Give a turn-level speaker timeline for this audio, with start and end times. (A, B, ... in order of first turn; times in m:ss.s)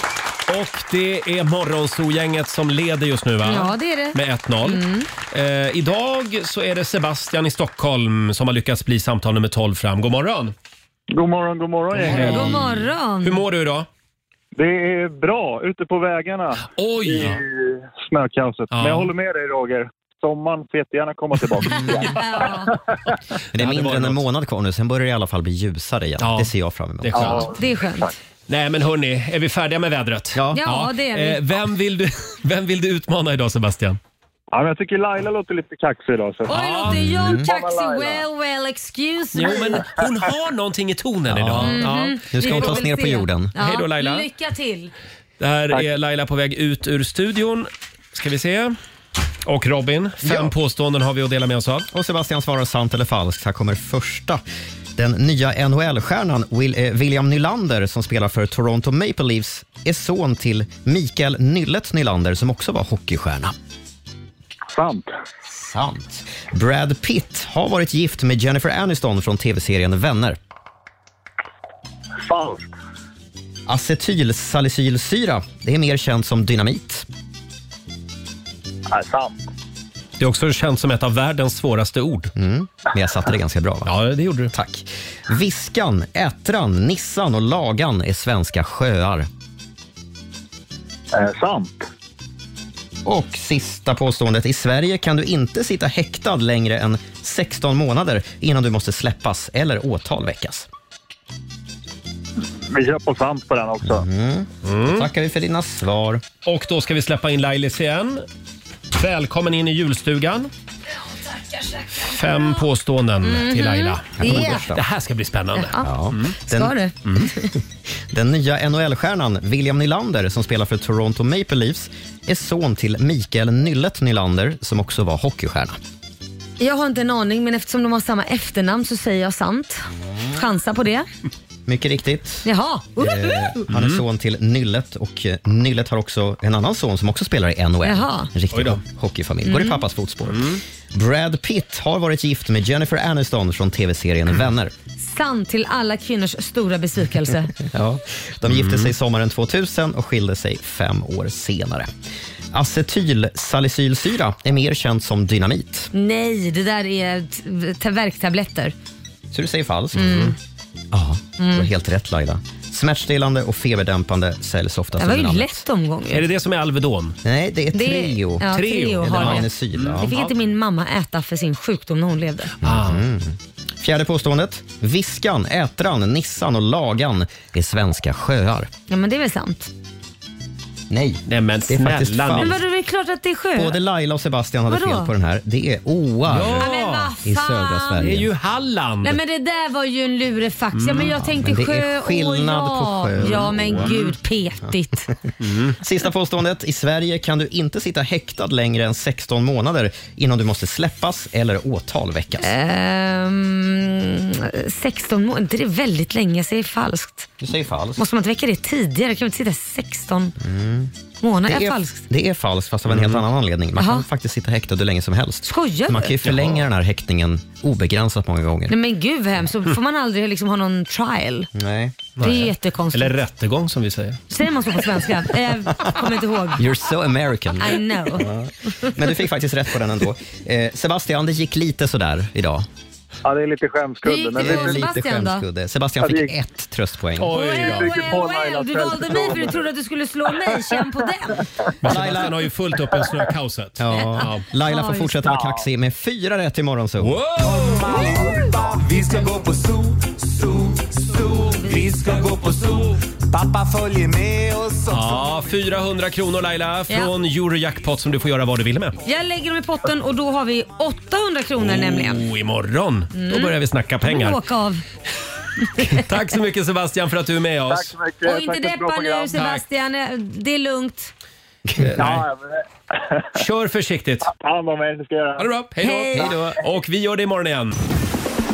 0:00.5-0:10.5 A
0:03.4-0:05.1 B
0:11.1-0:12.5 C
0:12.0-0:13.9 A
0:12.1-0:13.4 B
0:14.6-0:22.8 C
0:16.8-0:17.4 A
0:18.7-0:19.1 A
0:21.7-0:22.7 B
0:23.5-0:27.5 D
0:23.5-0:24.2 A
0:26.2-0:26.5 A
0:27.0-0:27.4 A
0:27.1-0:28.1 C
0:27.3-0:28.1 B
0:28.5-0:34.0 A
0:30.3-0:30.7 D
0:30.5-0:31.4 B
0:34.5-0:36.6 C
0:36.4-0:39.8 B
0:36.5-0:37.0 A
0:36.9-0:37.5 D
0:37.3-0:38.2 C
0:39.3-0:42.8 A
0:39.7-0:40.2 C
0:41.3-0:43.5 D
0:41.6-0:44.9 B
0:43.6-0:44.3 A
0:45.4-0:48.7 A
0:49.4-0:51.9 A
0:50.2-0:50.5 D
0:51.9-0:54.4 D
0:55.0-1:03.5 D
1:04.7-1:05.1 C
1:05.5-1:10.4 D
1:12.2-1:12.7 C
1:13.7-1:17.1 D
1:18.9-1:19.4 C
1:20.2-1:22.3 A
1:22.4-1:23.9 D
1:23.8-1:24.5 A
1:24.5-1:29.3 D
1:31.1-1:31.8 C
1:33.0-1:40.7 D
1:42.6-1:44.0 C
1:43.8-1:46.2 D
1:44.6-1:45.1 A
1:46.4-1:48.2 A
1:48.9-1:50.5 A
1:51.4-1:52.6 B
1:52.0-1:56.4 A
1:53.2-1:54.6 B
1:54.2-1:54.8 D
1:55.6-1:55.9 B
1:55.8-1:56.7 D
1:56.5-1:57.5 B
1:58.1-2:05.8 D
2:06.6-2:11.1 B
2:11.6-2:24.7 D
2:12.4-2:13.5 B
2:13.7-2:14.0 A
2:17.8-2:18.3 B
2:18.5-2:18.8 A
2:19.4-2:19.8 B
2:20.3-2:20.6 A
2:25.0-2:27.5 B
2:27.6-2:31.9 D
2:28.5-2:28.9 A
2:32.5-2:35.9 D
2:35.9-2:38.7 B
2:39.3-2:40.3 D
2:40.0-2:40.3 B
2:40.9-2:45.6 D
2:41.4-2:41.7 B
2:45.0-2:46.2 B
2:46.1-2:47.2 A
2:47.2-2:48.5 D
2:47.7-2:52.5 B
2:48.5-2:50.3 A
2:49.0-2:50.1 D
2:52.6-2:53.0 A
2:52.6-2:58.7 D
2:58.9-2:59.7 B
3:00.9-3:02.6 D
3:01.3-3:02.5 A
3:02.4-3:03.8 B
3:03.6-3:06.7 D
3:04.7-3:05.1 B
3:06.3-3:07.1 A
3:06.6-3:08.1 B
3:07.2-3:08.3 D
3:08.0-3:09.2 A
3:09.0-3:15.1 B
3:10.7-3:11.1 A
3:11.2-3:13.9 D
3:13.2-3:14.2 A
3:15.4-3:15.8 A
3:15.8-3:22.5 D
3:22.4-3:27.3 B
3:27.4-3:28.0 D
3:28.0-3:30.4 B
3:30.4-3:30.9 D
3:31.2-3:32.0 B
3:31.5-3:38.7 D
3:32.9-3:33.2 A
3:33.8-3:34.0 B
3:35.4-3:36.1 B
3:36.2-3:36.6 A
3:38.7-3:41.5 B
3:41.5-3:42.0 D
3:42.2-3:44.2 A
3:42.2-3:43.1 B
3:44.3-3:46.6 B
3:46.5-3:52.6 D
3:47.6-3:48.3 B
3:53.2-3:54.9 C
3:54.0-3:55.4 B
3:54.4-3:57.3 D
3:56.0-3:56.3 C
3:57.2-3:58.0 A
3:57.2-4:01.5 B
3:57.4-3:59.7 C
4:00.5-4:00.8 C
4:01.8-4:04.4 A
4:01.8-4:02.4 D
4:03.8-4:07.2 D
4:03.9-4:05.3 B
4:05.2-4:05.6 C
4:07.0-4:08.1 A
4:07.4-4:15.4 E
4:11.5-4:12.0 B
4:14.9-4:19.0 A
4:19.0-4:22.2 B
4:21.6-4:24.4 A
4:23.1-4:24.8 B
4:25.6-4:26.0 B
4:25.8-4:27.9 A
4:27.7-4:29.5 C
4:28.2-4:31.1 B
4:29.3-4:29.6 A
4:31.8-4:32.2 A
4:32.0-4:33.2 C
4:33.4-4:34.3 A
4:34.2-4:35.5 C
4:35.4-4:37.8 A
4:35.8-4:36.4 B